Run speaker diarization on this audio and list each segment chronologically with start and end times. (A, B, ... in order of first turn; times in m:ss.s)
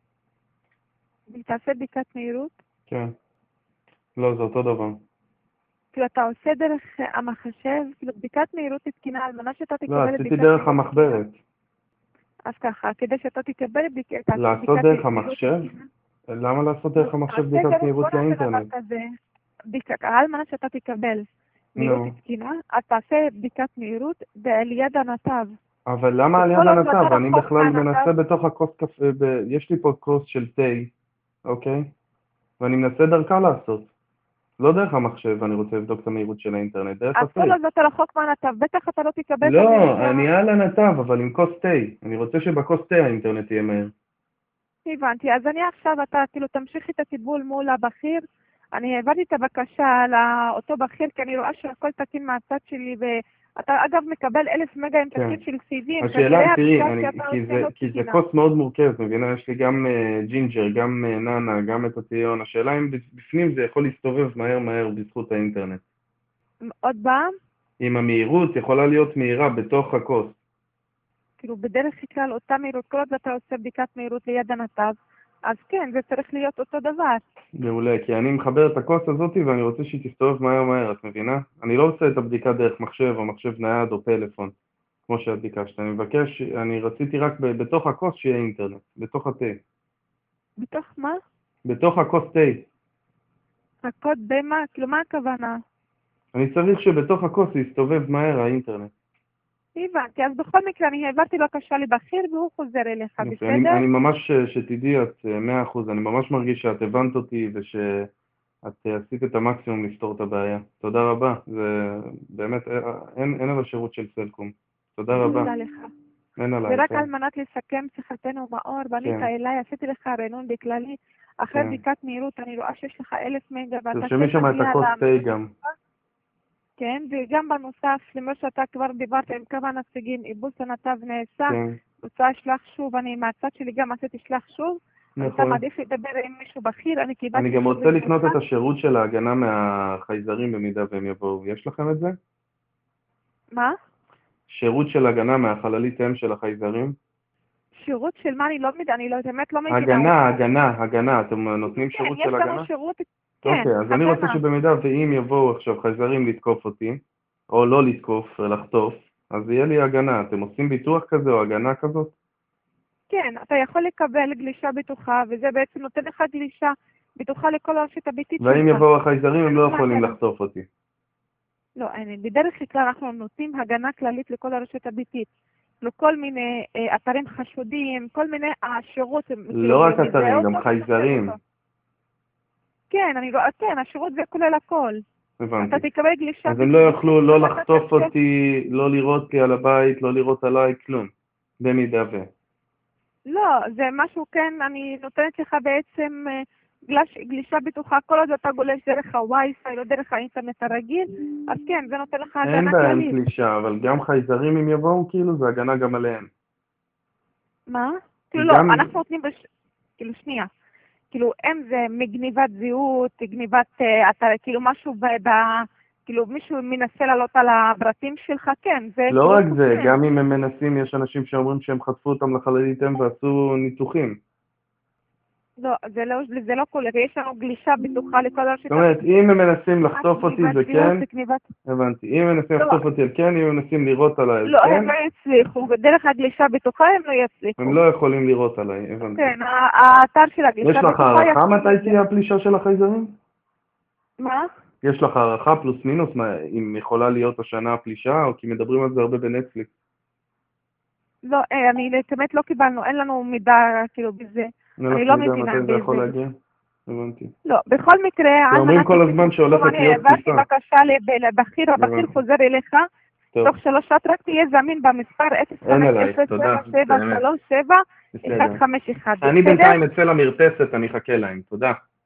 0:01.3-0:02.5 A
0:02.9-0:03.1 B
0:04.2-0:05.0 B
0:05.9-0:11.2 A
0:09.9-0:11.4 B
0:12.5-0:15.8 A
0:14.4-0:15.7 B
0:16.3-0:18.7 B
0:17.0-0:19.1 A
0:19.7-0:21.2 A
0:21.8-0:25.5 A
0:21.8-0:22.1 B
0:25.9-0:30.9 B
0:26.4-0:28.1 A
0:31.5-0:31.9 B
0:32.6-0:33.9 B
0:34.6-0:37.6 B
0:37.2-0:40.3 A
0:39.4-0:43.9 B
0:44.9-0:48.2 A
0:48.8-0:58.2 A
0:55.1-0:55.4 B
0:56.0-1:05.8 B
1:06.8-1:07.3 A
1:07.8-1:10.4 B
1:11.4-1:15.0 A
1:15.5-1:17.2 A
1:17.6-1:24.5 B
1:25.1-1:29.6 B
1:30.6-1:31.2 A
1:31.6-1:32.7 B
1:33.8-1:35.6 A
1:36.3-1:38.9 B
1:39.8-1:43.8 A
1:43.2-1:48.1 B
1:48.6-1:55.5 B
1:55.2-1:55.9 A
1:56.4-1:57.1 B
1:56.7-2:05.7 A
1:59.0-1:59.3 B
2:01.5-2:01.8 B
2:03.9-2:05.5 B
2:06.8-2:18.4 A
2:11.5-2:11.8 B
2:15.2-2:15.6 B
2:17.3-2:22.2 B
2:24.5-2:27.0 B
2:27.8-2:30.4 A
2:29.7-2:32.7 B
2:31.7-2:34.4 A
2:33.4-2:42.2 B
2:43.1-2:48.8 A
2:48.4-2:50.7 B
2:49.5-2:50.2 A
2:51.8-2:55.3 A
2:55.8-3:01.4 A
2:59.5-3:01.4 B
3:02.9-3:05.0 A
3:05.4-3:05.8 B
3:05.6-3:08.1 A
3:06.5-3:12.3 B
3:13.3-3:16.3 A
3:16.9-3:23.2 A
3:22.4-3:26.3 B
3:27.7-3:29.4 A
3:28.4-3:28.9 B
3:30.0-3:30.5 A
3:31.1-3:35.4 A
3:36.1-3:40.0 A
3:39.1-3:44.2 B
3:45.6-3:49.0 A
3:48.7-3:51.0 B
3:49.8-3:51.5 A
3:51.7-3:54.9 B
3:54.5-3:57.8 A
3:57.6-3:59.3 B
3:59.0-4:02.0 A
4:00.6-4:03.2 B
4:04.2-4:04.5 A
4:04.8-4:09.7 B
4:11.2-4:16.2 A
4:14.8-4:16.4 B
4:16.9-4:17.3 B
4:17.5-4:22.8 A
4:18.5-4:20.5 B
4:21.8-4:22.2 B
4:23.4-4:29.8 A
4:25.7-4:27.2 B
4:28.1-4:28.6 B
4:29.2-4:31.8 B